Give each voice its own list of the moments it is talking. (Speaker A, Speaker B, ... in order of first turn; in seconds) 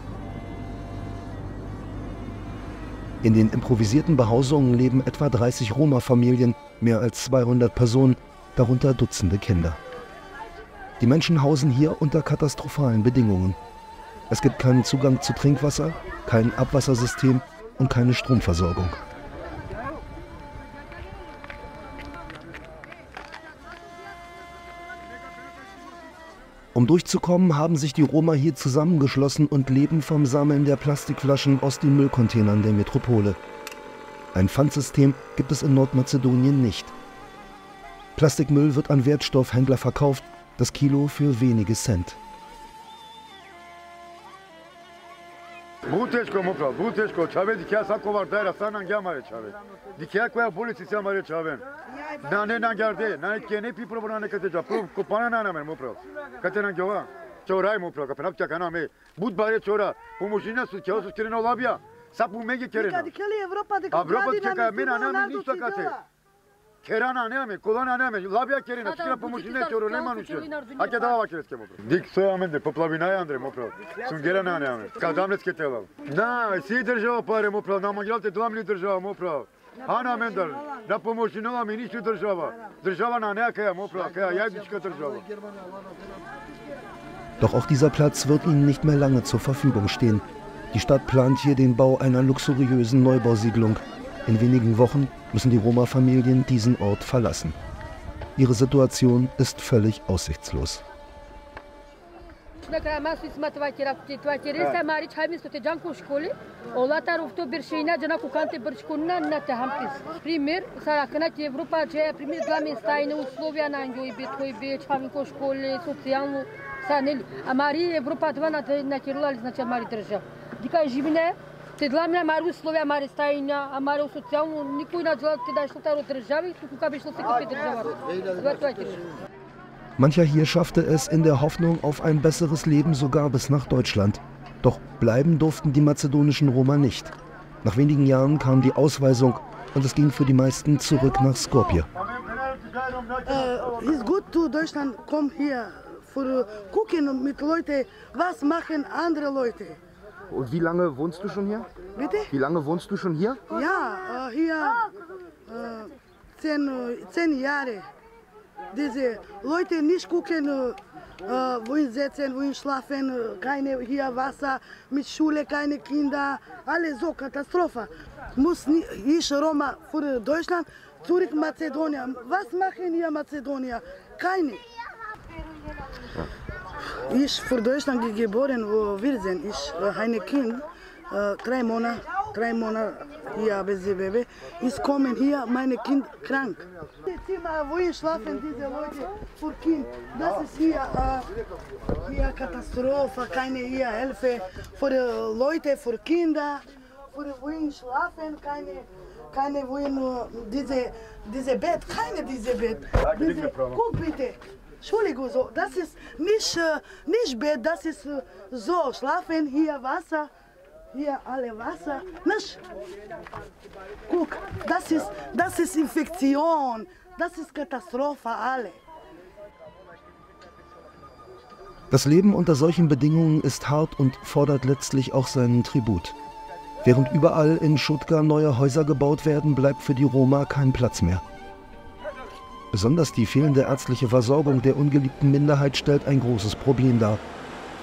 Speaker A: 3.2-9.8, 11.0-13.6, 14.3-19.0, 26.7-33.4, 34.3-36.9, 38.2-42.2, 87.4-97.6, 98.4-100.8, 130.0-141.9, 221.9-226.2, 226.8-231.2, 232.7-237.2
Speaker B: 45.9-51.6, 52.2-63.1, 63.9-65.9, 66.8-85.3, 142.0-143.4, 203.1-203.8
Speaker C: 62.7-66.0, 143.3-149.8, 152.0-152.3, 153.5-154.9, 155.5-157.9, 158.7-174.6, 176.9-191.3, 192.0-210.3, 210.9-212.6, 214.1-218.8
Speaker D: 68.8-71.2, 102.6-129.1
Speaker E: 150.3-151.7, 152.4-153.4